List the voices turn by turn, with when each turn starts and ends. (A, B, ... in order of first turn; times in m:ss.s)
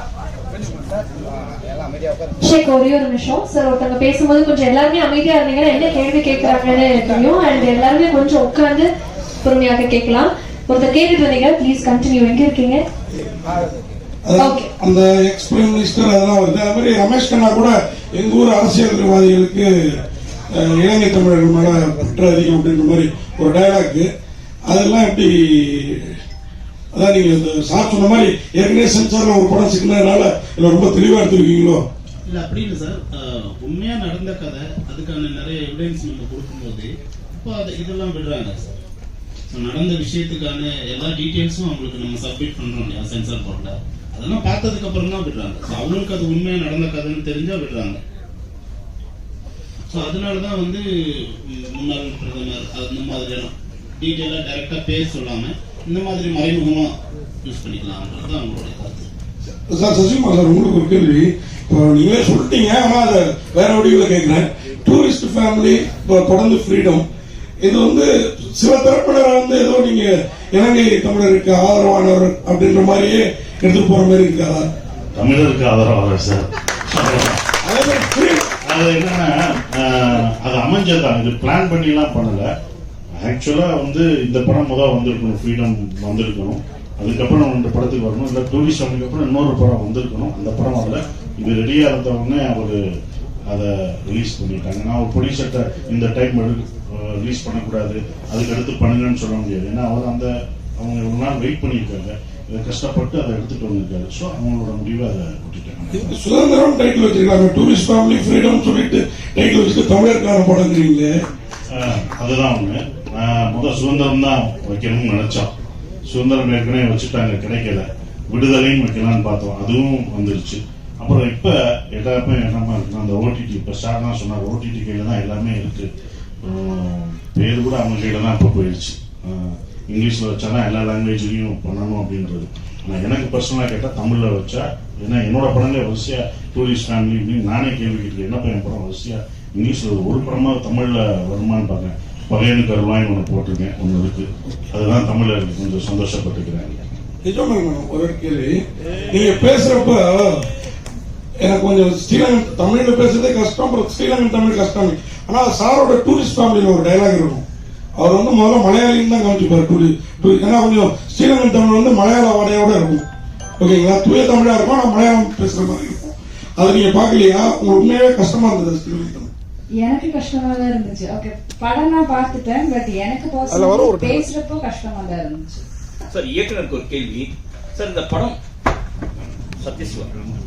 0:02.4-0:08.9 A
0:09.4-0:12.8 A
0:14.2-0:20.0 B
0:14.4-0:14.7 A
0:20.5-0:24.1 B
0:24.7-0:26.2 B
0:26.9-0:31.8 B
0:32.2-0:38.8 C
0:39.5-0:48.0 C
0:49.9-0:56.9 C
0:57.4-0:59.1 C
0:59.5-1:07.0 B
1:07.6-1:14.7 B
1:15.2-1:17.4 D
1:17.6-1:18.5 B
1:18.6-1:22.5 D
1:23.2-1:32.8 D
1:33.5-1:46.1 D
1:45.9-1:51.1 B
1:51.7-1:55.5 D
1:56.1-2:05.9 D
2:06.4-2:26.8 D
2:27.2-2:28.6 B
2:29.1-2:30.5 B
2:31.4-2:37.4 B
2:38.0-2:43.0 B
2:43.6-2:49.3 B
2:49.7-2:55.6 E
2:53.5-2:54.3 B
2:56.1-2:58.4 F
2:59.6-3:00.1 F